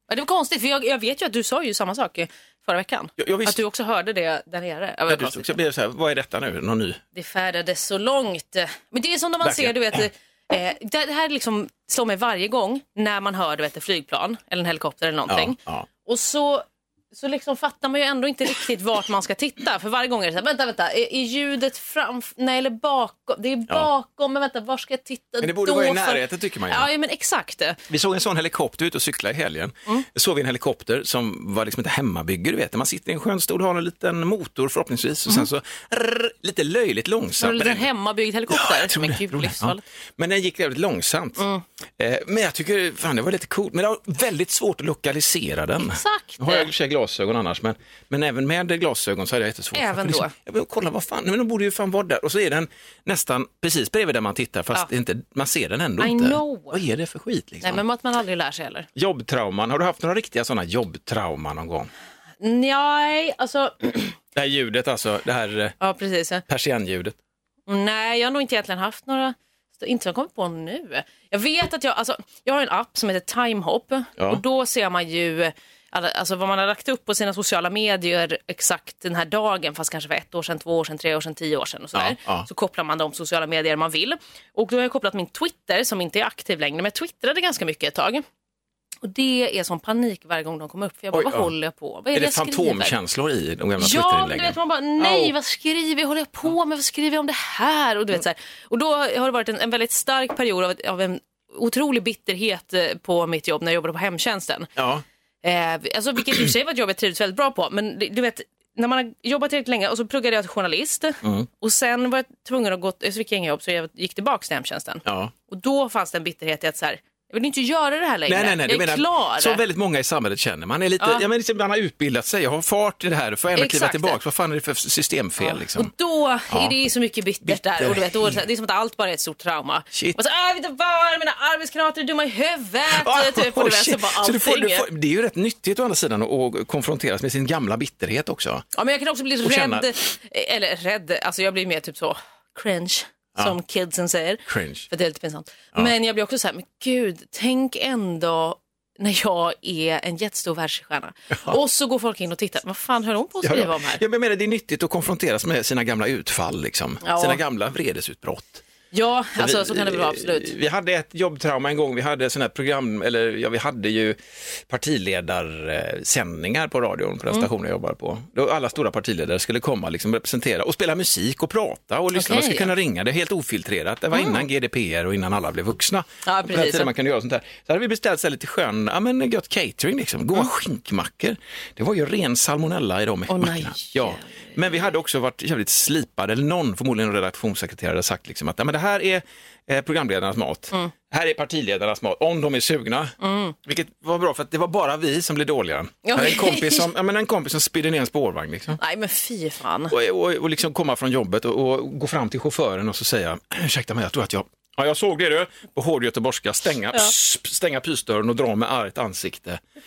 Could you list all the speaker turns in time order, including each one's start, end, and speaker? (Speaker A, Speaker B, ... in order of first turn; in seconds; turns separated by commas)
Speaker A: 0.1-5.5, Speaker B: 3.2-3.6, Speaker B: 5.1-7.0, Speaker A: 7.2-27.8, Speaker B: 9.4-10.0, Speaker B: 15.3-15.9, Speaker B: 25.4-26.9, Speaker B: 27.9-37.9, Speaker A: 37.4-39.8, Speaker B: 38.5-41.5, Speaker A: 41.4-41.6, Speaker B: 42.0-57.8, Speaker A: 45.8-46.7, Speaker A: 49.7-50.3, Speaker A: 56.0-56.8, Speaker A: 57.6-58.9, Speaker B: 59.0-61.9, Speaker A: 62.4-64.2, Speaker B: 64.4-65.8, Speaker A: 65.8-66.4, Speaker B: 66.5-67.2, Speaker A: 67.7-88.2, Speaker B: 82.0-82.5, Speaker A: 89.0-93.0, Speaker B: 91.1-91.5, Speaker B: 92.1-95.3, Speaker A: 93.8-104.7, Speaker B: 104.8-105.0, Speaker A: 105.4-119.6, Speaker B: 115.0-115.3, Speaker B: 118.3-125.9, Speaker A: 123.5-124.2, Speaker A: 125.4-134.9, Speaker B: 126.5-126.8, Speaker B: 127.4-128.4, Speaker B: 129.9-130.2, Speaker B: 132.9-138.7, Speaker A: 138.8-154.0, Speaker B: 139.4-139.9, Speaker B: 144.5-144.9, Speaker B: 153.4-158.6, Speaker A: 157.0-157.4, Speaker A: 158.9-160.5, Speaker B: 159.4-193.2, Speaker A: 172.1-172.7, Speaker A: 174.1-174.4, Speaker A: 176.3-176.9, Speaker A: 183.3-184.3, Speaker A: 193.2-193.6, Speaker B: 193.7-198.8, Speaker A: 196.1-196.9, Speaker A: 198.8-199.9, Speaker B: 199.9-209.6